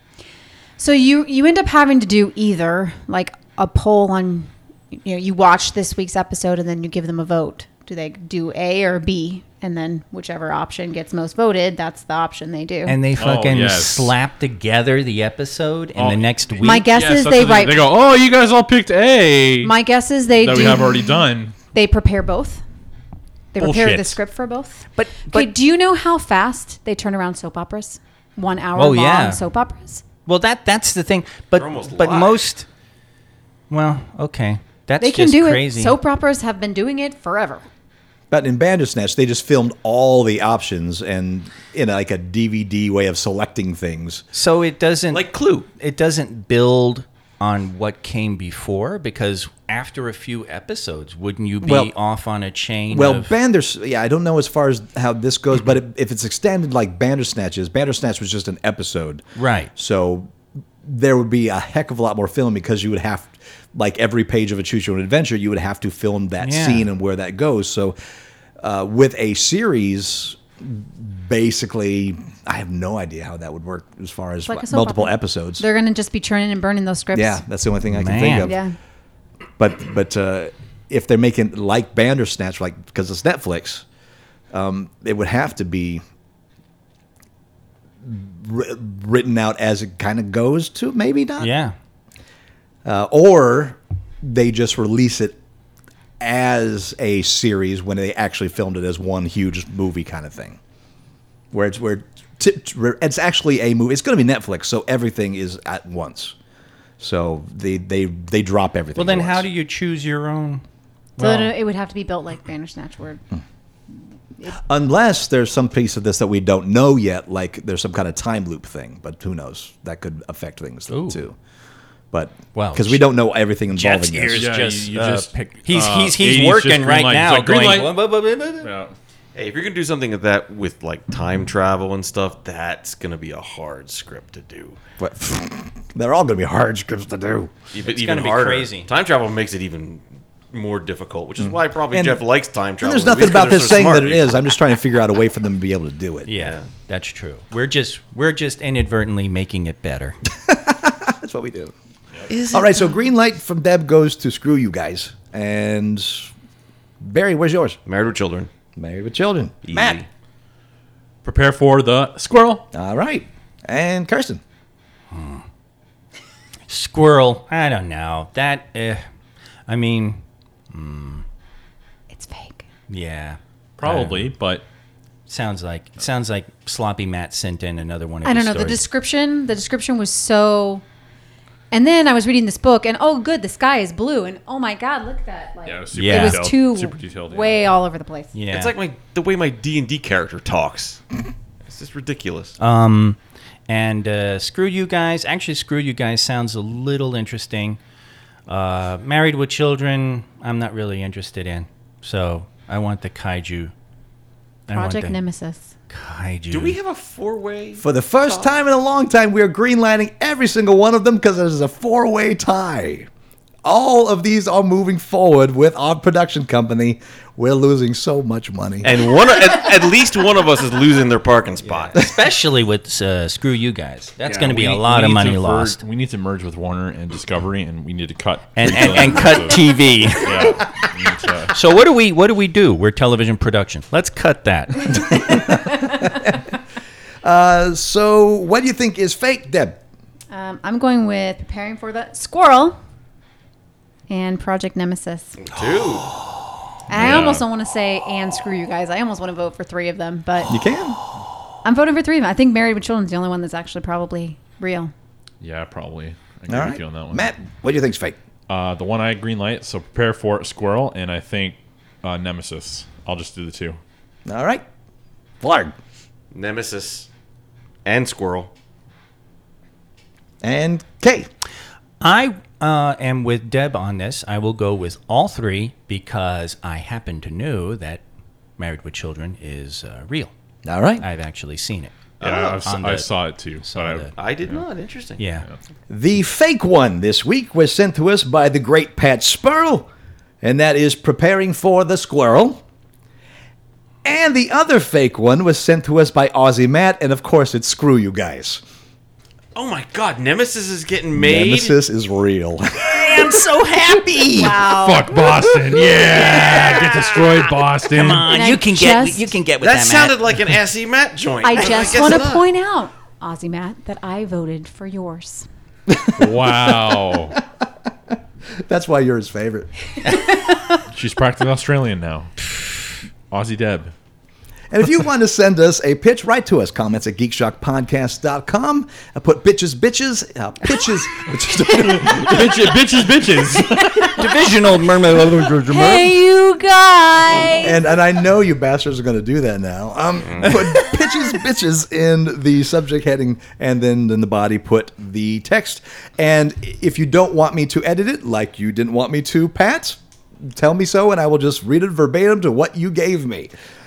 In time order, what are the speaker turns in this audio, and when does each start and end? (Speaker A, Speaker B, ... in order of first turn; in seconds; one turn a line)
Speaker A: 0.8-13.0
Speaker B: 12.8-16.9
Speaker C: 13.2-14.1
Speaker C: 15.9-19.7
Speaker A: 16.6-17.9
Speaker A: 19.6-21.2
Speaker C: 20.4-21.5
Speaker A: 21.7-22.6
Speaker A: 23.5-30.0
Speaker C: 23.6-24.2
Speaker B: 24.9-25.5
Speaker B: 28.8-29.4
Speaker B: 30.2-32.6
Speaker D: 31.5-32.4
Speaker B: 33.7-36.0
Speaker A: 35.0-37.6
Speaker E: 38.3-44.2
Speaker B: 44.3-53.3
Speaker D: 45.1-45.6
Speaker E: 51.6-51.9
Speaker E: 52.9-60.3
Speaker B: 59.4-59.7
Speaker E: 60.8-68.0
Speaker B: 66.4-66.9
Speaker E: 68.6-75.6
Speaker A: 74.5-77.4
Speaker E: 77.1-78.6
Speaker B: 77.9-78.5
Speaker A: 78.3-78.7
Speaker E: 79.6-83.8
Speaker E: 84.5-86.0
Speaker E: 88.0-91.5
Speaker B: 91.4-91.7
Speaker E: 92.8-95.3
Speaker E: 96.2-100.6
Speaker E: 101.5-106.3
Speaker E: 107.0-109.5
Speaker B: 109.0-110.6
Speaker B: 111.2-111.5
Speaker A: 111.2-113.2
Speaker E: 114.5-121.3
Speaker B: 120.9-121.2
Speaker E: 122.1-124.5
Speaker B: 122.5-123.0
Speaker B: 123.7-128.7
Speaker C: 124.3-128.0
Speaker C: 128.6-128.9
Speaker D: 129.3-134.8
Speaker E: 135.0-137.5
Speaker D: 137.7-144.5
Speaker B: 137.8-138.9
Speaker E: 141.4-142.2
Speaker E: 142.8-146.3
Speaker B: 146.2-150.2
Speaker D: 146.4-146.7
Speaker E: 150.4-151.7
Speaker D: 152.3-152.9
Speaker E: 152.5-156.3
Speaker E: 157.0-157.8
Speaker D: 157.9-158.5
Speaker E: 158.8-160.0
Speaker D: 159.6-160.1
Speaker C: 161.2-162.6
Speaker E: 162.7-164.4
Speaker B: 165.1-165.4
Speaker B: 166.7-169.0
Speaker B: 169.7-171.2
Speaker A: 172.1-172.6
Speaker B: 172.9-174.2
Speaker C: 173.8-174.6
Speaker B: 175.3-178.8
Speaker A: 178.2-180.8
Speaker A: 181.7-188.3
Speaker C: 185.6-187.6
Speaker B: 185.9-186.5
Speaker B: 188.3-188.7
Speaker D: 188.5-191.0
Speaker D: 191.7-192.6
Speaker B: 192.6-197.8
Speaker B: 198.5-203.7
Speaker B: 204.7-205.2
Speaker A: 204.7-205.7
Speaker B: 205.9-206.8
Speaker D: 206.5-208.5
Speaker E: 207.8-213.1
Speaker E: 213.6-219.0
Speaker D: 218.8-222.0
Speaker B: 221.6-225.8
Speaker C: 224.2-231.5
Speaker B: 228.5-230.6
Speaker B: 231.5-235.1
Speaker E: 235.0-236.5
Speaker E: 237.2-239.8
Speaker A: 240.3-242.8
Speaker A: 244.1-245.4
Speaker D: 245.4-246.1
Speaker A: 246.9-250.5
Speaker C: 246.9-247.4
Speaker E: 250.5-251.0
Speaker A: 251.6-254.9
Speaker C: 255.4-257.3
Speaker E: 256.5-258.2
Speaker C: 258.5-263.8
Speaker E: 264.3-264.6
Speaker E: 265.4-265.7
Speaker D: 266.3-267.1
Speaker D: 267.8-268.5
Speaker E: 270.4-271.3
Speaker B: 272.0-278.0
Speaker B: 278.6-280.3
Speaker E: 280.6-281.0
Speaker B: 281.0-282.0
Speaker D: 282.2-282.6
Speaker C: 282.2-284.6
Speaker B: 282.6-283.1
Speaker B: 283.6-284.1
Speaker D: 284.2-285.2
Speaker B: 285.2-285.4
Speaker E: 285.9-289.9
Speaker E: 290.4-292.6
Speaker E: 294.0-298.6
Speaker D: 299.5-301.7
Speaker E: 301.1-304.6
Speaker B: 302.8-305.1
Speaker A: 304.4-305.0
Speaker C: 304.7-308.3
Speaker B: 305.7-310.2
Speaker A: 308.3-309.3
Speaker D: 309.6-312.4
Speaker A: 311.4-315.5
Speaker E: 315.9-319.7
Speaker C: 316.2-317.4
Speaker C: 320.9-322.5
Speaker C: 323.3-323.9
Speaker E: 324.7-332.8
Speaker C: 331.7-334.2
Speaker B: 334.1-336.1
Speaker A: 335.7-337.8
Speaker E: 337.6-353.5